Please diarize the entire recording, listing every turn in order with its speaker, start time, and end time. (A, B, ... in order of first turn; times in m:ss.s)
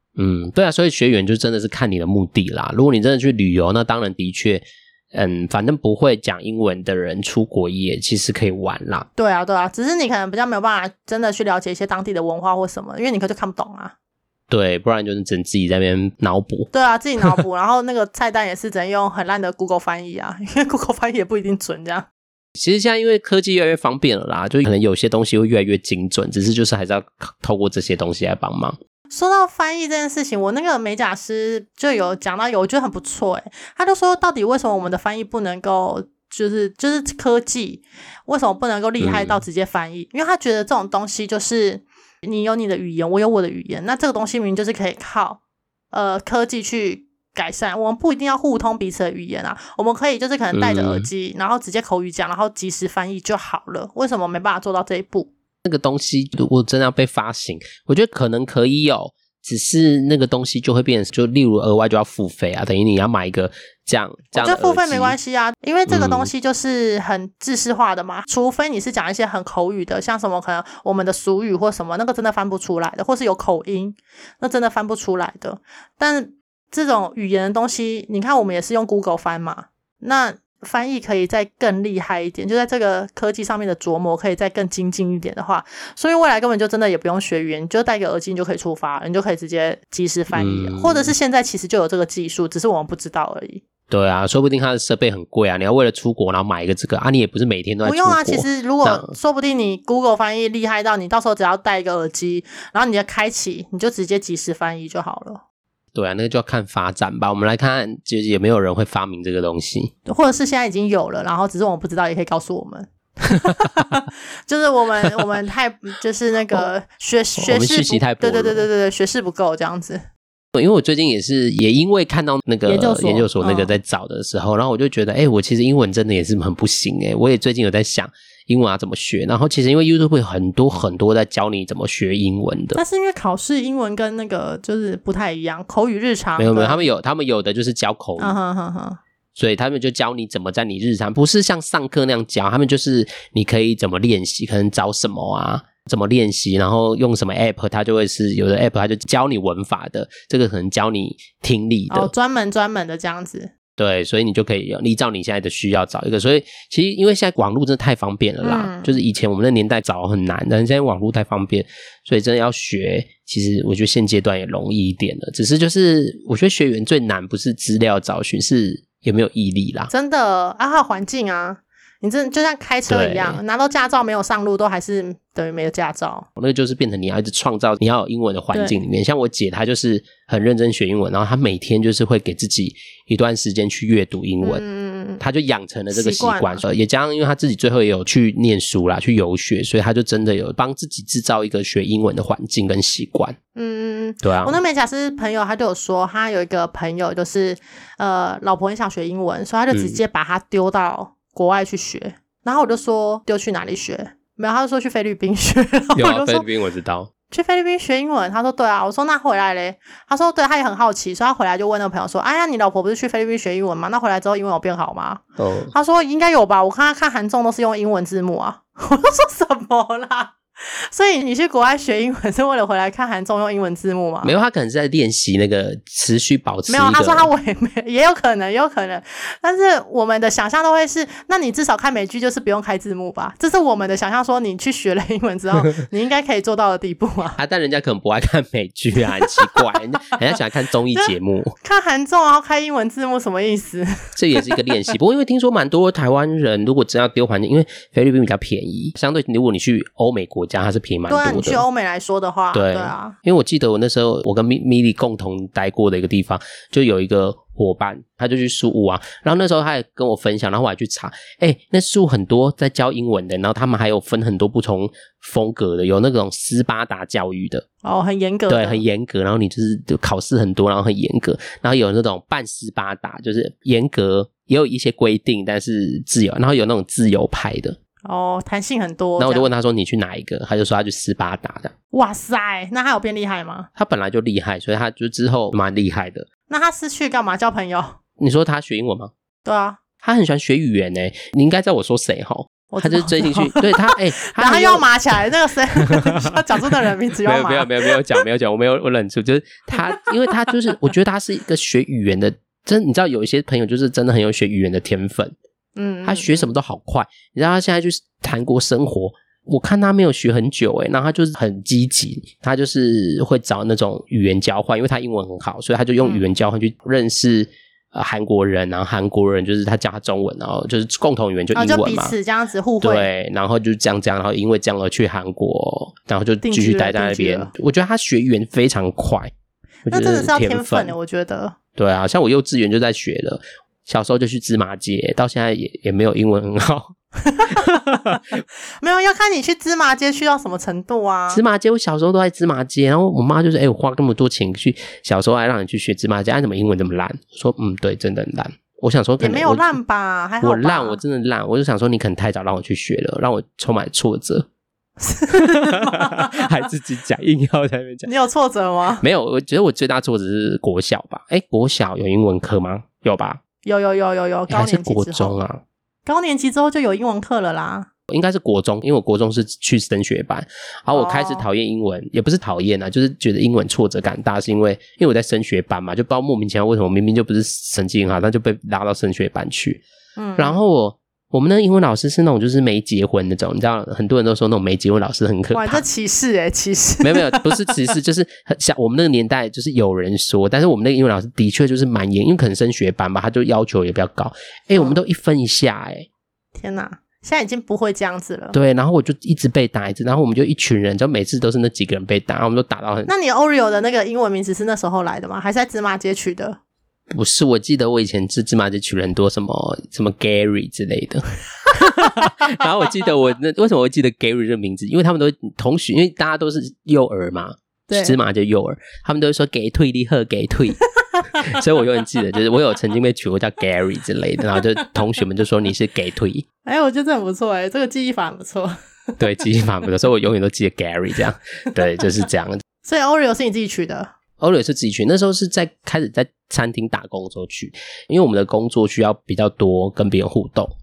0:00.2-0:09.1 A
0:09.2-0:13.9 B
0:14.5-0:16.7 A
0:16.7-0:22.1 B
0:22.6-0:28.8 A
0:29.1-0:45.4 B
0:39.0-0:39.4 A
0:45.9-0:55.3 B
0:50.5-0:51.1 A
0:55.6-1:05.2 A
1:04.4-1:33.6 B
1:05.9-1:06.3 A
1:30.3-1:31.1 A
1:33.9-1:39.2 A
1:37.8-1:45.4 B
1:46.0-1:49.9 A
1:50.1-2:00.0 B
1:57.4-1:58.7 A
2:00.6-2:12.8 A
2:02.7-2:03.8 B
2:12.8-2:16.8 B
2:16.4-2:18.4 A
2:18.2-2:19.0 B
2:19.4-2:32.1 A
2:31.9-2:33.5 B
2:33.8-2:49.9 A
2:38.4-2:39.0 B
2:49.9-2:56.3 B
2:52.9-2:53.4 A
2:56.4-3:04.6 A
2:58.5-2:58.8 B
3:04.4-3:05.2 B
3:05.2-3:13.4 A
3:05.9-3:06.6 B
3:13.6-3:26.5 B
3:14.2-3:14.6 A
3:19.7-3:20.0 A
3:26.0-3:27.1 A
3:27.3-3:44.3 B
3:35.4-3:35.7 A
3:44.2-3:47.3 A
3:46.7-3:57.4 B
3:57.4-4:01.6 A
3:59.2-3:59.6 B
4:00.9-4:04.5 B
4:04.2-4:11.6 A
4:11.1-4:13.2 B
4:12.5-4:27.6 A
4:27.8-4:28.8 B
4:28.5-4:37.8 A
4:38.1-4:39.5 B
4:39.2-4:41.7 A
4:41.9-4:43.7 B
4:43.8-4:46.3 A
4:46.5-4:48.0 B
4:48.2-4:49.1 A
4:49.4-4:49.8 B
4:50.0-4:54.9 A
4:52.7-4:58.0 B
4:55.9-4:56.4 A
4:57.2-5:05.4 A
4:59.7-5:00.3 B
5:05.8-5:06.5 B
5:06.0-5:22.2 A
5:21.6-5:23.1 B
5:22.8-5:29.3 A
5:26.4-5:27.5 B
5:29.8-5:31.6 B
5:29.9-5:31.0 A
5:31.8-5:37.0 A
5:37.2-5:37.8 B
5:37.5-5:38.4 A
5:38.8-5:41.4 B
5:41.3-5:49.7 A
5:49.2-5:51.0 B
5:50.4-5:54.5 A
5:55.0-5:56.5 B
5:55.3-5:58.1 A
5:58.1-5:59.0 B
5:59.0-6:03.4 A
6:03.6-6:05.4 B
6:04.5-6:05.6 A
6:06.1-6:07.9 B
6:08.1-6:19.8 A
6:10.9-6:11.5 B
6:20.2-6:20.6 B
6:20.4-6:25.8 A
6:25.5-6:27.6 B
6:27.0-6:36.1 A
6:34.8-6:35.0 B
6:36.6-6:38.6 B
6:38.5-6:43.1 A
6:43.1-6:46.6 B
6:47.1-7:00.8 A
6:57.9-6:58.2 B
7:01.2-7:01.4 B
7:01.4-7:06.5 A
7:06.6-7:09.2 B
7:09.2-7:12.6 A
7:12.8-7:14.1 B
7:14.4-7:20.7 A